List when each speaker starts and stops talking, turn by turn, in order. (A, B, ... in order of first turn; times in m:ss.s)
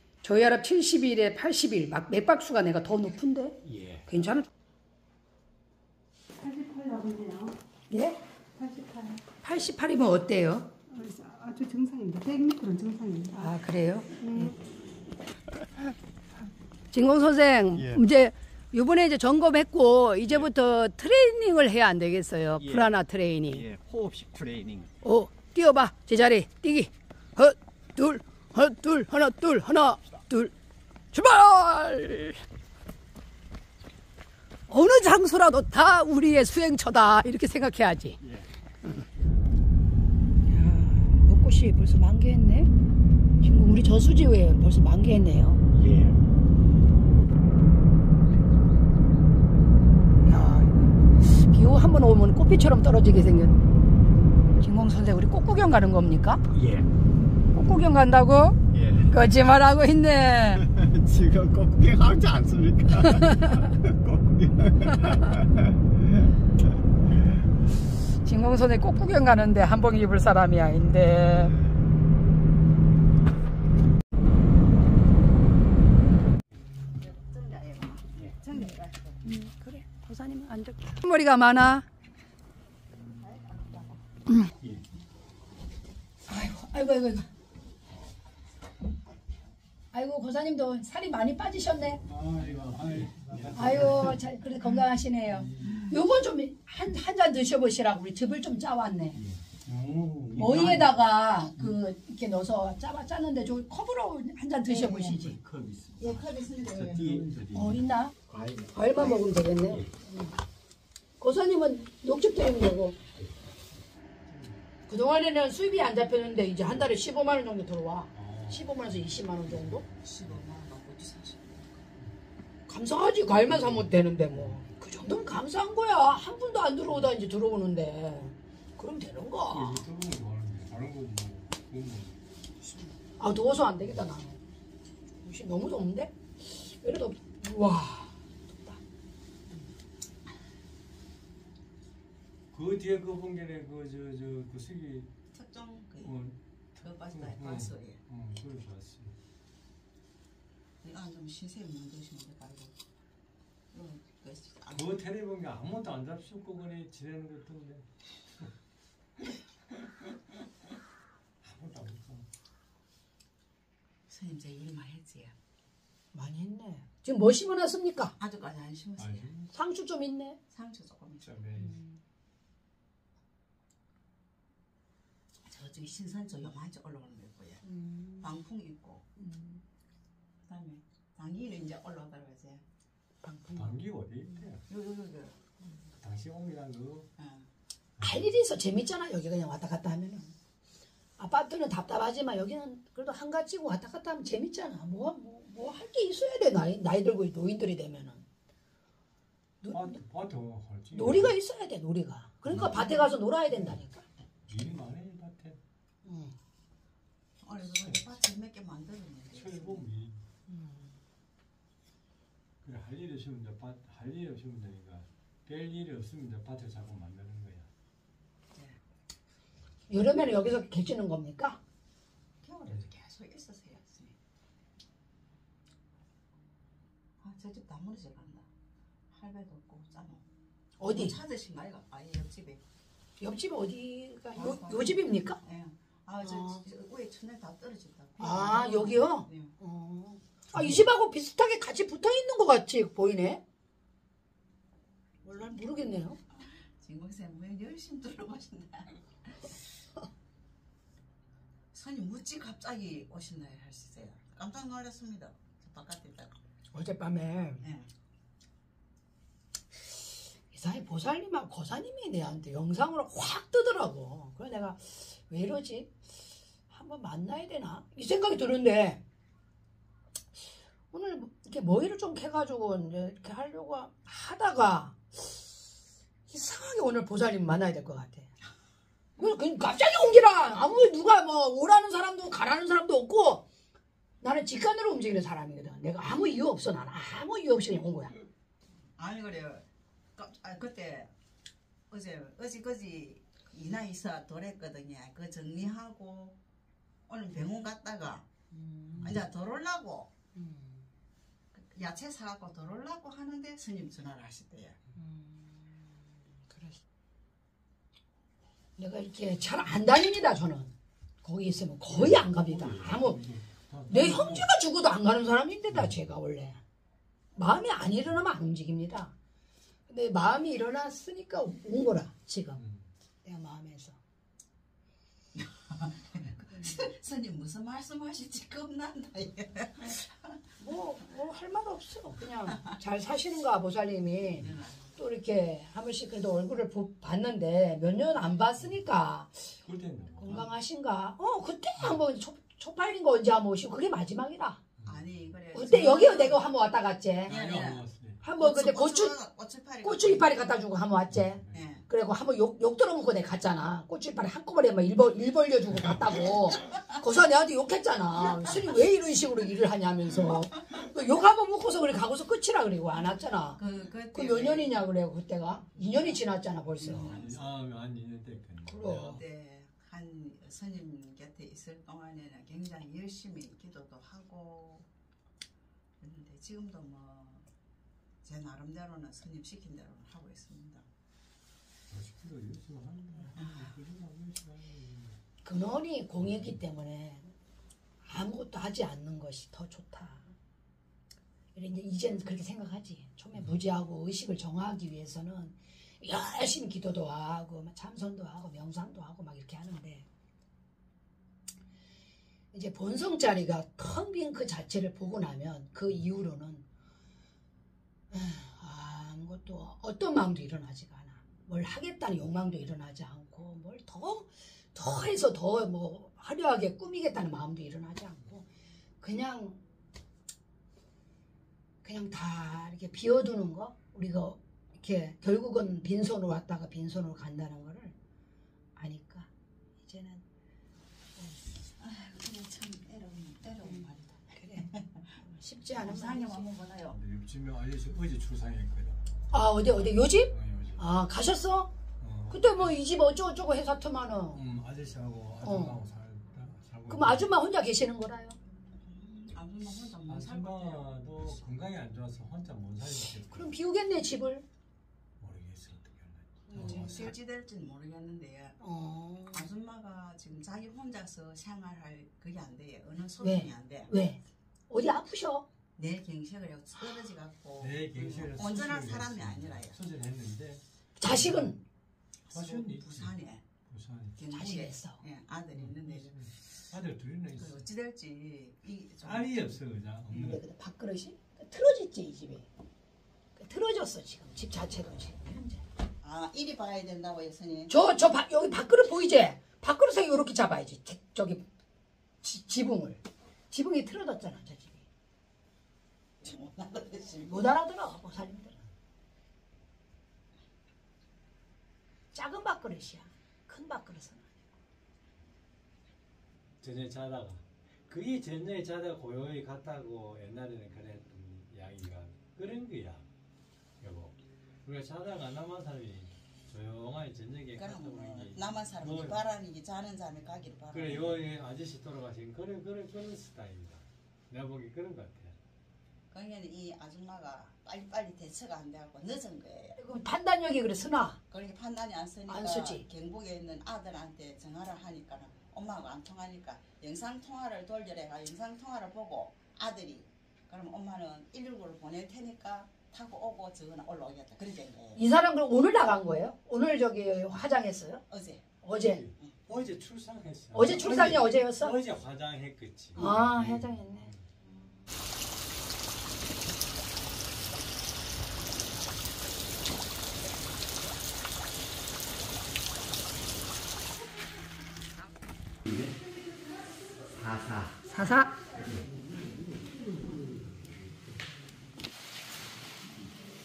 0:00.2-0:04.5 A
0:03.6-0:04.1 B
0:06.4-0:07.6 C
0:07.9-0:08.2 A
0:08.6-0:09.3 C
0:09.4-0:10.7 A
0:10.9-0:13.6 C
0:13.3-0:14.6 A
0:16.9-0:23.7 A
0:17.7-0:18.0 B
0:22.6-0:22.9 B
0:23.5-0:24.9 B
0:25.0-0:30.5 A
0:31.1-0:32.4 A
0:34.7-0:38.2 A
0:38.2-0:38.5 B
0:40.5-0:42.7 A
0:43.4-0:45.6 A
0:45.7-0:46.2 B
0:50.2-0:53.6 A
0:54.6-0:56.4 A
0:56.5-0:56.9 B
0:57.5-0:58.6 A
0:58.7-0:59.3 B
0:59.1-1:00.6 A
1:00.5-1:06.3 B
1:03.3-1:03.6 A
1:08.2-1:11.6 A
1:17.0-1:19.2 D
1:19.2-1:21.8 A
1:23.2-1:24.0 D
1:26.3-1:27.3 A
1:29.9-1:32.0 A
1:32.1-1:34.2 E
1:32.9-1:34.0 B
1:33.5-1:39.2 A
1:39.2-1:41.0 B
1:40.4-1:45.4 A
1:45.0-1:49.9 B
1:46.0-1:47.4 D
1:47.5-1:48.2 A
1:48.7-1:50.3 A
1:51.2-1:53.0 A
1:54.3-1:54.6 E
1:54.9-1:59.8 A
1:58.1-2:00.4 E
2:00.0-2:01.9 D
2:02.7-2:09.8 A
2:03.5-2:04.7 E
2:09.5-2:12.7 E
2:13.2-2:14.4 A
2:15.2-2:18.8 A
2:22.5-2:25.1 E
2:25.3-2:26.2 D
2:26.0-2:29.2 E
2:26.8-2:28.0 D
2:30.8-2:32.7 D
2:33.7-2:35.0 D
2:34.7-2:37.9 E
2:41.4-2:42.3 E
2:44.1-2:45.3 D
2:46.1-2:48.1 A
2:48.2-2:49.3 D
2:49.0-2:49.5 E
2:49.5-2:50.4 A
2:50.5-2:51.3 D
2:51.2-2:51.8 E
2:51.6-2:51.9 A
2:55.5-2:57.6 D
2:57.6-2:58.3 A
2:58.2-2:59.1 D
2:59.2-2:59.6 A
3:00.4-3:02.6 D
3:03.2-3:03.8 A
3:03.5-3:04.6 E
3:04.7-3:05.5 D
3:06.0-3:07.1 E
3:07.2-3:07.5 D
3:08.0-3:08.3 E
3:08.0-3:10.4 A
3:11.2-3:18.2 A
3:19.6-3:20.0 A
3:19.7-3:21.4 E
3:20.9-3:24.0 A
3:22.5-3:23.0 E
3:24.5-3:25.6 E
3:26.0-3:26.4 A
3:27.4-3:29.9 D
3:27.8-3:28.0 E
3:29.3-3:30.2 E
3:30.5-3:30.9 A
3:32.6-3:37.7 E
3:39.9-3:41.6 A
3:42.4-3:44.2 D
3:47.2-3:48.5 D
3:49.1-3:50.2 D
3:50.8-3:51.2 A
3:50.8-3:52.6 D
3:53.2-3:55.4 A
3:54.4-3:59.5 D
3:56.2-3:56.6 A
3:58.2-4:03.4 A
4:00.5-4:00.8 E
4:05.2-4:06.2 A
4:06.3-4:09.6 D
4:11.7-4:16.4 D
4:16.7-4:17.7 A
4:17.6-4:17.9 D
4:20.5-4:26.0 A
4:26.7-4:29.0 A
4:30.9-4:35.4 A
4:36.3-4:38.3 A
4:39.2-4:43.4 A
4:44.2-4:48.2 A
4:49.0-4:51.1 D
4:51.9-4:56.4 D
4:57.1-4:58.3 D
4:58.5-4:59.2 A
4:59.0-5:00.1 D
5:00.4-5:00.9 A
5:01.5-5:04.8 D
5:05.0-5:06.8 A
5:08.8-5:10.7 A
5:11.2-5:13.2 A
5:11.9-5:14.5 E
5:13.9-5:16.6 A
5:15.7-5:16.0 E
5:17.4-5:19.1 A
5:19.9-5:22.6 A
5:22.6-5:22.9 E
5:23.2-5:24.0 A
5:25.4-5:30.4 D
5:30.6-5:39.5 A
5:34.3-5:35.0 D
5:39.6-5:40.5 E
5:40.2-5:44.6 A
5:44.8-5:45.4 E
5:44.8-5:46.4 D
5:45.5-5:47.4 A
5:47.3-5:47.9 D
5:47.3-5:48.2 E
5:48.2-5:49.2 A
5:48.4-5:50.4 D
5:49.8-6:03.6 A
5:51.1-5:51.8 E
5:51.5-5:51.8 D
5:58.3-5:59.0 D
6:03.6-6:04.7 D
6:04.1-6:07.2 A
6:05.8-6:06.2 D
6:06.8-6:07.5 D
6:06.9-6:09.2 E
6:08.7-6:09.2 A
6:08.9-6:14.9 D
6:16.0-6:17.4 D
6:18.2-6:20.9 D
6:21.9-6:25.2 E
6:23.4-6:23.8 D
6:25.4-6:27.3 A
6:28.0-6:30.3 A
6:31.6-6:40.1 A
6:42.5-6:46.7 A
6:48.1-6:58.5 A
6:59.0-6:59.6 A
7:01.8-7:07.9 A
7:08.8-7:09.3 A
7:09.8-7:10.2 A
7:11.8-7:15.1 D
7:13.6-7:16.5 A
7:15.8-7:17.0 D
7:16.9-7:19.1 E
7:19.3-7:21.7 A
7:19.6-7:20.9 E
7:22.0-7:22.8 E
7:22.3-7:24.4 A
7:24.3-7:27.3 E
7:25.4-7:25.8 A
7:26.9-7:28.4 A
7:28.8-7:31.4 D
7:30.1-7:33.5 E
7:33.2-7:34.4 A
7:35.2-7:37.2 E
7:36.5-7:37.0 A
7:36.5-7:38.6 D
7:38.6-7:39.5 A
7:39.3-7:43.9 D
7:43.2-7:45.5 A
7:45.8-7:49.8 D
7:47.6-7:51.5 E
7:51.0-7:51.6 A
7:52.3-7:53.4 D
7:52.3-7:53.2 E
7:53.7-7:54.2 E
7:54.2-7:56.7 D
7:54.3-7:55.0 A
7:55.5-7:57.7 E
7:57.3-7:59.4 D
7:59.0-8:00.4 E
8:00.1-8:02.5 A
8:03.4-8:05.6 A
8:06.0-8:07.7 D
8:07.7-8:11.5 A
8:12.2-8:14.8 A
8:16.2-8:17.6 D
8:17.2-8:18.7 A
8:22.1-8:24.4 A
8:26.6-8:33.0 E
8:33.8-8:39.2 E
8:37.6-8:41.2 D
8:40.7-8:45.4 E
8:46.1-8:49.8 D
8:49.8-8:51.2 A
8:51.3-9:05.0 D
8:52.3-8:52.8 A
9:05.0-9:08.0 A
9:08.1-9:08.4 D
9:08.6-9:09.0 A
9:08.8-9:14.2 E
9:10.5-9:11.8 A
9:13.0-9:14.1 A
9:25.7-9:26.0 B
9:27.1-9:27.9 B
9:27.9-9:28.4 A
9:28.6-9:29.8 B